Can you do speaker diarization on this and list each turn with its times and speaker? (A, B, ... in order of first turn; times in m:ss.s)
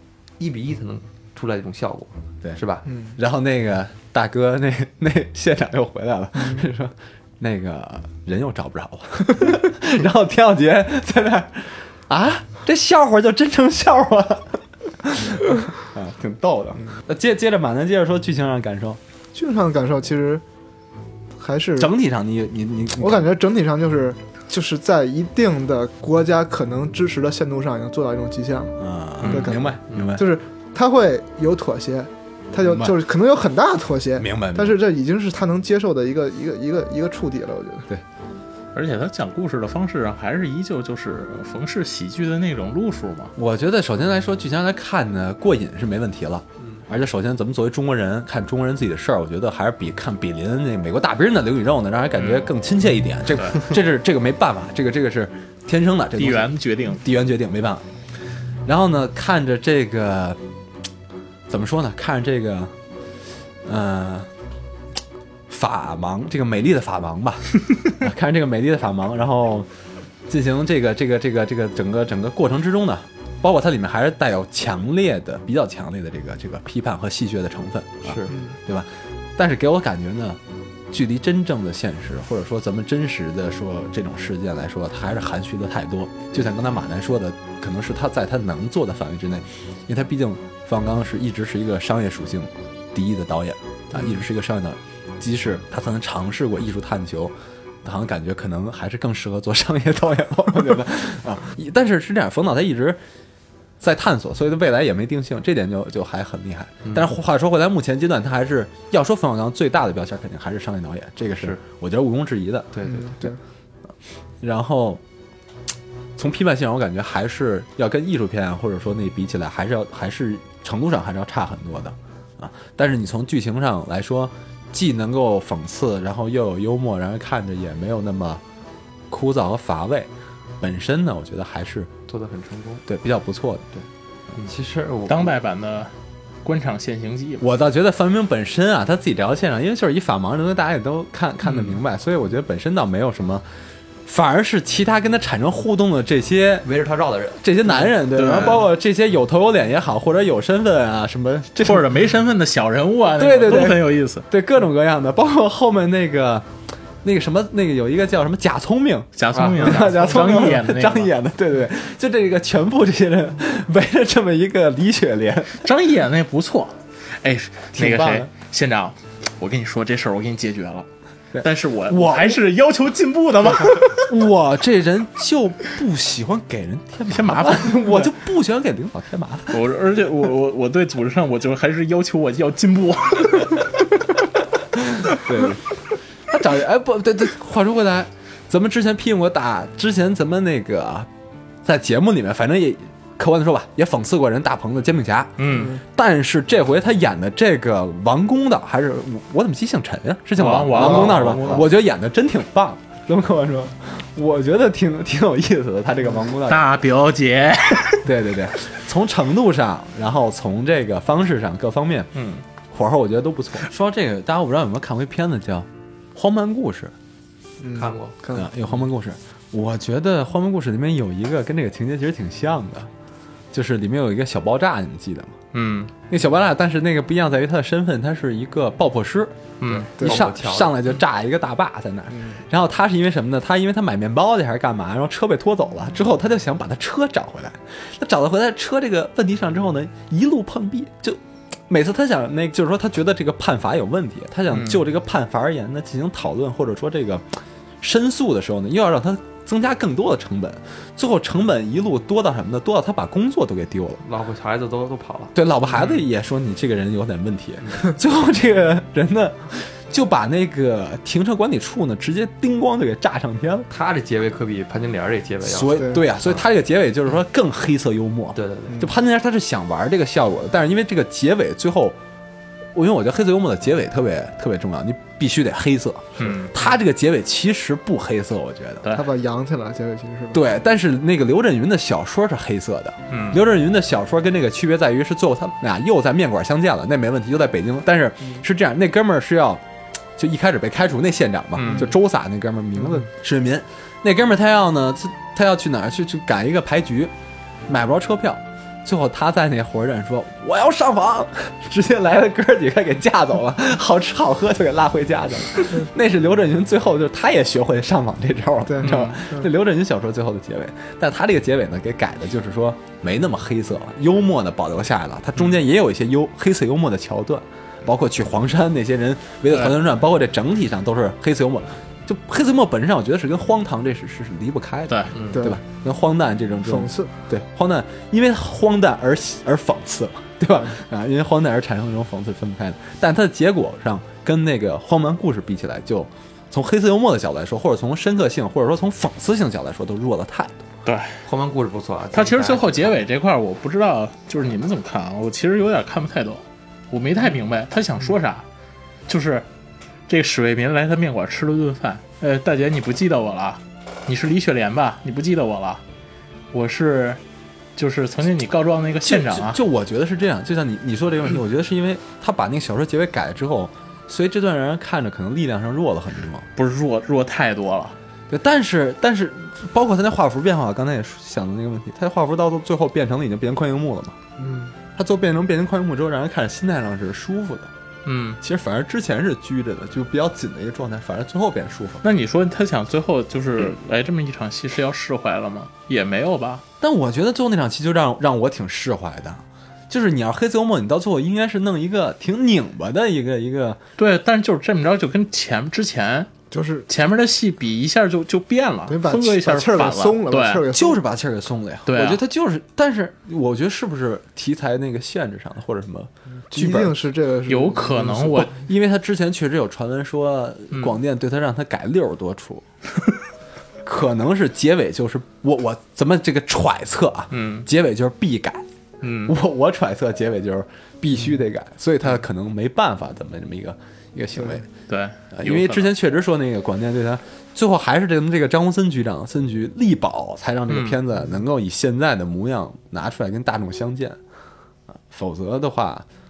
0:00.4-0:02.9 A
0:02.9-0:03.2 B
0:03.2-0:19.0 C
0:19.3-0:20.4 B
0:21.4-0:21.9 B
0:21.8-0:23.3 C
0:23.0-0:37.9 B
0:28.8-0:30.3 C
0:29.9-0:30.1 A
0:32.6-0:33.0 C
0:34.2-0:34.8 C
0:38.7-0:43.3 D
0:43.4-0:57.8 C
0:52.2-0:52.5 D
0:53.3-0:53.6 D
0:56.2-0:57.0 D
0:58.6-1:00.4 C
1:01.5-1:02.7 C
1:03.6-1:04.3 C
1:05.5-1:09.7 C
1:10.3-1:20.4 C
1:18.0-1:18.4 A
1:18.3-1:18.6 B
1:20.9-1:43.0 C
1:43.8-1:53.3 C
1:46.8-1:47.1 A
1:51.3-1:51.6 A
1:52.7-1:53.2 A
1:52.9-1:53.4 B
1:54.4-1:55.0 C
1:56.2-2:08.4 C
2:09.1-2:11.9 C
2:12.1-2:12.9 A
2:12.9-2:13.7 C
2:14.4-2:15.4 A
2:15.1-2:15.9 D
2:16.4-2:17.4 D
2:17.4-2:23.4 C
2:21.4-2:21.8 D
2:24.1-2:26.7 C
2:26.6-2:27.4 A
2:27.4-2:32.0 C
2:28.1-2:28.7 D
2:31.6-2:34.2 D
2:33.2-2:36.5 C
2:37.0-2:45.7 C
2:39.2-2:41.1 D
2:39.3-2:40.5 A
2:45.6-2:50.9 D
2:47.7-2:48.3 C
2:51.3-2:52.4 C
2:51.4-2:54.1 D
2:54.0-2:59.6 C
2:57.1-2:58.1 D
2:59.5-3:03.9 D
3:05.0-3:05.6 C
3:06.3-3:11.1 C
3:11.6-3:26.7 C
3:15.4-3:15.8 D
3:15.5-3:15.8 B
3:20.4-3:21.7 D
3:20.8-3:21.4 B
3:26.4-3:28.1 D
3:28.0-3:32.1 C
3:32.2-3:32.4 D
3:32.7-3:36.9 C
3:37.6-3:38.6 B
3:37.7-3:38.2 A
3:38.3-3:42.9 C
3:43.5-3:45.4 C
3:45.5-3:45.9 D
3:46.1-3:49.4 C
3:49.6-3:49.9 D
3:49.7-3:50.8 A
3:50.0-4:07.2 C
4:04.5-4:04.8 D
4:07.8-4:14.0 C
4:14.0-4:15.4 A
4:15.3-4:23.7 C
4:23.7-4:26.4 A
4:25.4-4:32.0 C
4:25.8-4:26.0 B
4:28.3-4:28.9 A
4:32.7-4:38.9 C
4:36.2-4:36.5 D
4:38.9-4:40.4 B
4:40.3-4:49.6 C
4:43.1-4:43.4 D
4:50.2-4:57.1 C
4:51.6-4:51.9 D
4:57.7-5:40.6 C
5:08.6-5:09.5 B
5:08.8-5:09.2 D
5:24.9-5:25.1 D
5:25.1-5:25.4 A
5:25.3-5:25.6 B
5:26.6-5:27.1 B
5:40.9-5:41.2 D
5:41.2-5:43.0 A
5:42.1-5:48.4 D
5:49.1-5:49.5 D
5:50.1-5:55.8 D
5:56.5-5:57.2 D
5:57.8-5:59.6 D
5:59.0-6:06.5 C
6:06.6-6:08.0 D
6:08.3-6:14.2 C
6:14.4-6:14.8 B
6:15.0-6:17.7 C
6:18.0-6:18.4 D
6:18.4-6:22.0 C
6:22.0-6:26.6 D
6:26.8-6:33.8 C
6:34.0-6:36.3 D
6:36.5-6:36.9 B
6:36.9-6:40.7 D
6:38.9-6:41.0 B
6:40.7-6:47.0 C
6:41.9-6:42.2 D
6:46.5-6:48.5 B
6:47.5-6:48.6 D
6:48.4-6:52.6 C
6:50.7-6:51.0 D
6:53.8-6:58.6 C
6:57.3-6:57.7 D
6:59.0-6:59.4 D
6:59.3-7:04.7 C
7:04.4-7:04.6 B
7:04.9-7:05.9 D
7:05.3-7:14.2 C
7:10.7-7:11.0 D
7:15.1-7:16.1 C